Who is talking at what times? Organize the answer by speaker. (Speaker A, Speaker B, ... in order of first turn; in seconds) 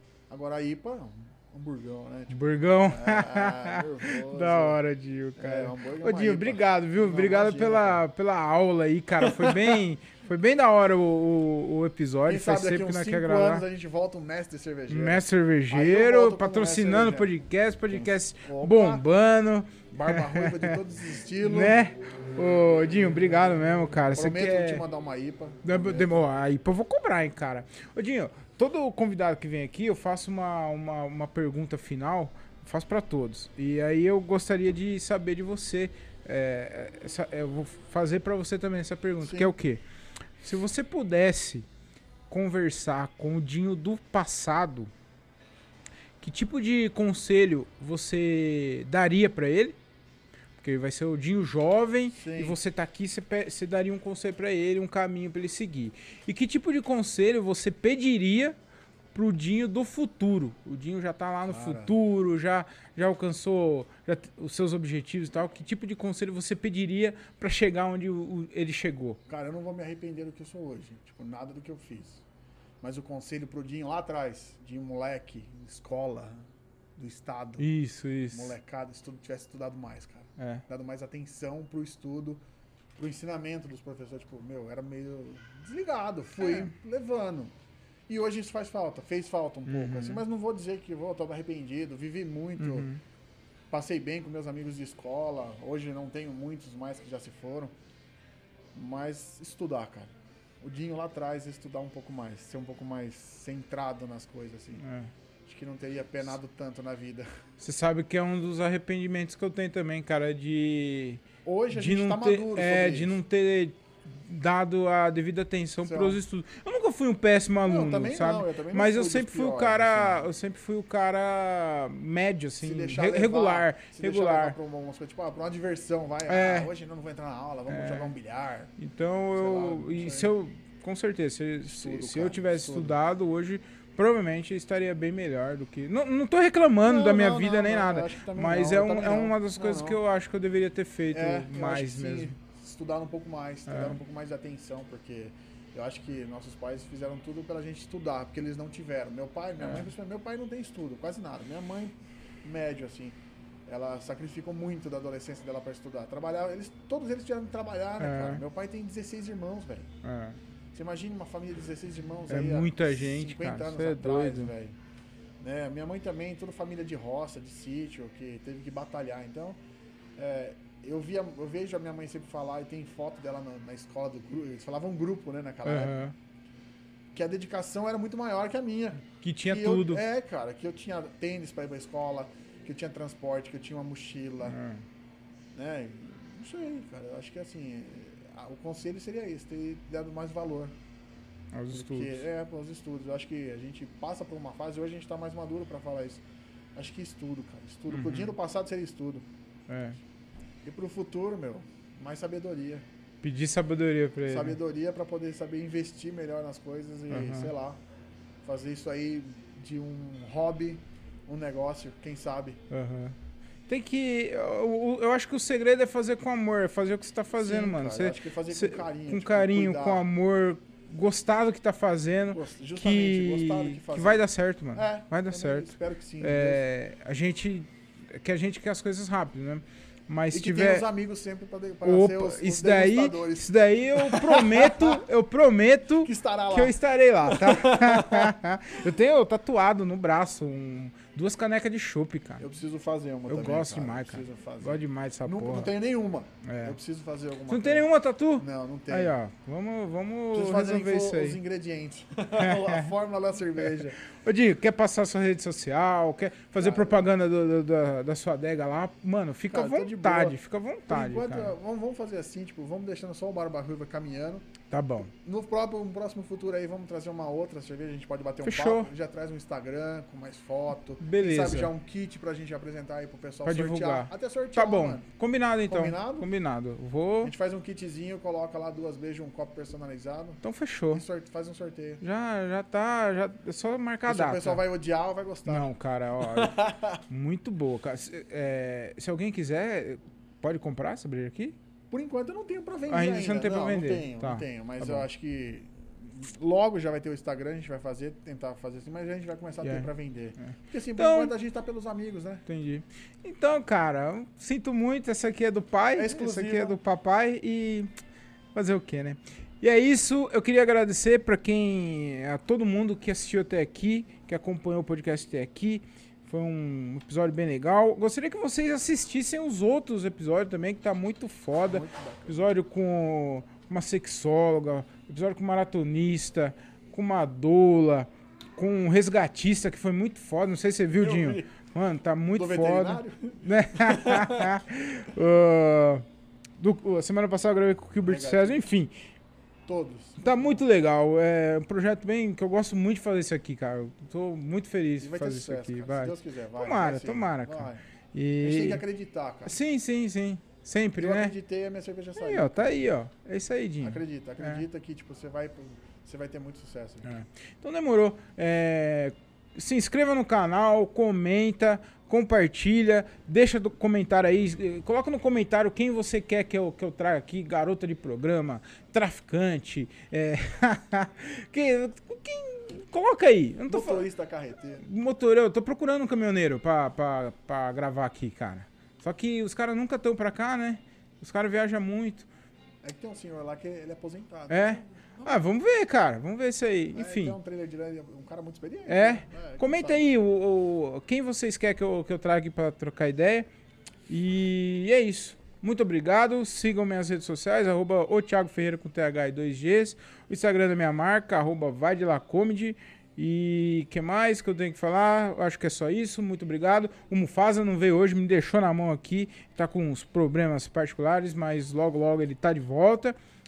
Speaker A: 0.3-4.8, 5.4-8.0, 9.2-9.8, 12.3-17.3, 17.9-19.1, 19.9-21.8, 24.1-26.2, 39.2-39.5, 52.1-52.6, 61.5-62.0, 69.3-72.2, 72.8-77.7, 78.3-82.4, 83.0-87.5, 88.1-92.9, 93.7-97.7, 98.8-100.1, 100.6-104.8, 105.5-107.3, 111.5-113.2, 115.8-116.2, 117.6-120.3, 122.6-128.8, 129.3-130.3, 131.7-133.0, 136.8-140.0, 141.1-159.9, 160.7-164.8, 165.4-169.6, 170.2-176.1, 177.1-184.6, 185.6-190.8, 191.7-196.2, 196.8-199.2, 200.7-202.8, 204.3-207.8, 208.4-212.6, 217.4-220.1, 222.3-226.6, 230.3-235.1, 236.0-238.3, 242.4-249.2, 250.3-254.0, 256.6-257.1, 259.5-264.5, 265.1-275.1, 275.7-276.3, 277.2-282.0, 284.1-285.7, 286.2-287.0, 291.9-302.4, 306.0-306.8, 321.6-322.5, 331.0-331.6, 332.3-334.6, 338.0-338.6, 339.7-340.6, 345.0-347.8, 348.4-349.6, 351.0-352.9, 353.8-357.1, 373.7-374.9, 382.8-385.5, 386.9-390.0
Speaker B: 2.3-13.7, 14.9-20.8, 21.4-24.8, 25.6-39.8, 40.4-41.7, 42.3-44.9, 46.2-49.8, 50.6-58.6, 59.1-69.2, 77.6-78.5, 80.4-80.6, 86.4-86.7, 89.7-90.2, 92.6-93.0, 104.8-105.1, 107.6-124.6, 126.3-126.7, 127.7-128.1, 128.8-142.3, 143.7-144.0, 149.6-149.9, 158.0-158.4, 160.0-160.4, 162.3-164.5, 175.7-176.1, 179.1-180.0, 184.4-184.9, 191.5-192.2, 197.9-198.3, 199.7-200.0, 203.2-204.6, 207.1-207.5, 212.7-213.2, 213.7-230.9, 231.8-242.4, 243.3-245.7, 246.5-246.8, 247.5-251.4, 252.4-252.9, 253.6-261.6, 264.7-265.1, 268.4-268.9, 271.0-271.7, 273.4-277.3, 280.4-281.0, 282.0-284.6, 285.5-291.6, 292.9-295.1, 299.6-301.3, 302.5-307.9, 308.5-336.1, 336.6-339.0, 340.2-348.8, 349.4-351.4, 352.2-354.6, 357.1-374.1, 374.8-382.3, 384.5-387.4, 388.9-393.5, 394.1-413.1